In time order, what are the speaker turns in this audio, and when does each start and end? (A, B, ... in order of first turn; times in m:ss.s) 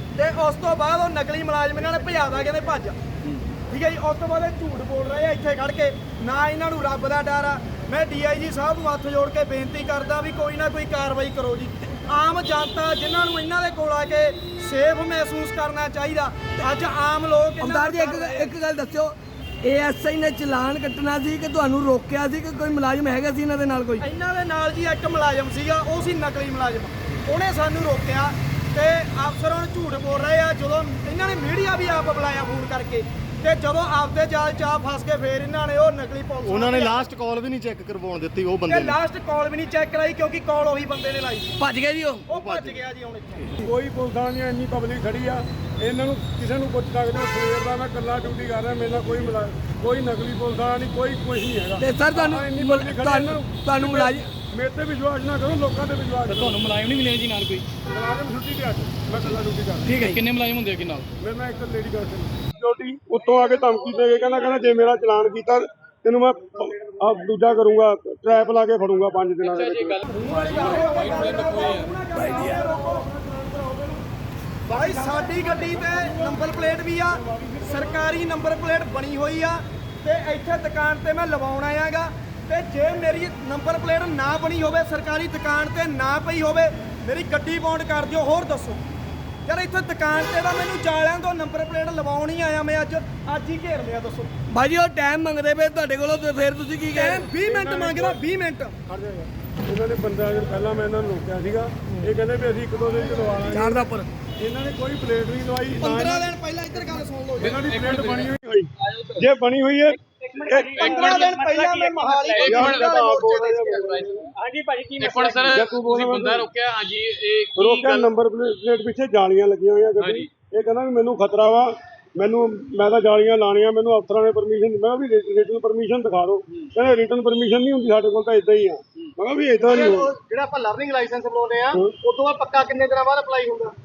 0:00.2-0:03.0 A
0:03.7-0:18.5 A
0:17.6-0:24.0 B
0:24.0-0:37.0 A
0:36.4-0:39.0 C
0:38.6-0:41.6 A
0:41.6-0:42.2 B
0:42.3-0:43.6 A
0:42.3-0:42.8 C
0:43.6-0:56.6 D
0:51.8-0:54.3 B
0:56.2-0:57.6 E
0:57.9-1:00.0 D
0:59.9-1:00.2 B
0:59.9-1:01.1 E
1:01.2-1:14.0 D
1:09.4-1:11.9 E
1:10.1-1:13.0 A
1:12.2-1:12.6 B
1:14.7-1:28.8 A
1:14.7-1:18.3 D
1:29.4-1:34.3 A
1:34.5-1:37.3 B
1:36.9-1:38.8 A
1:37.4-1:38.2 D
1:39.6-1:46.3 D
1:43.5-1:44.1 B
1:45.8-1:47.6 A
1:47.4-1:48.3 E
1:47.4-1:51.3 D
1:50.2-1:52.4 F
1:50.7-1:53.7 A
1:50.8-1:51.3 E
1:52.2-1:54.1 E
1:52.4-1:54.3 D
1:54.4-1:55.4 F
1:55.0-1:58.1 E
1:55.5-1:56.5 D
1:57.6-2:10.2 D
2:00.0-2:00.3 E
2:09.6-2:13.7 C
2:11.7-2:12.0 D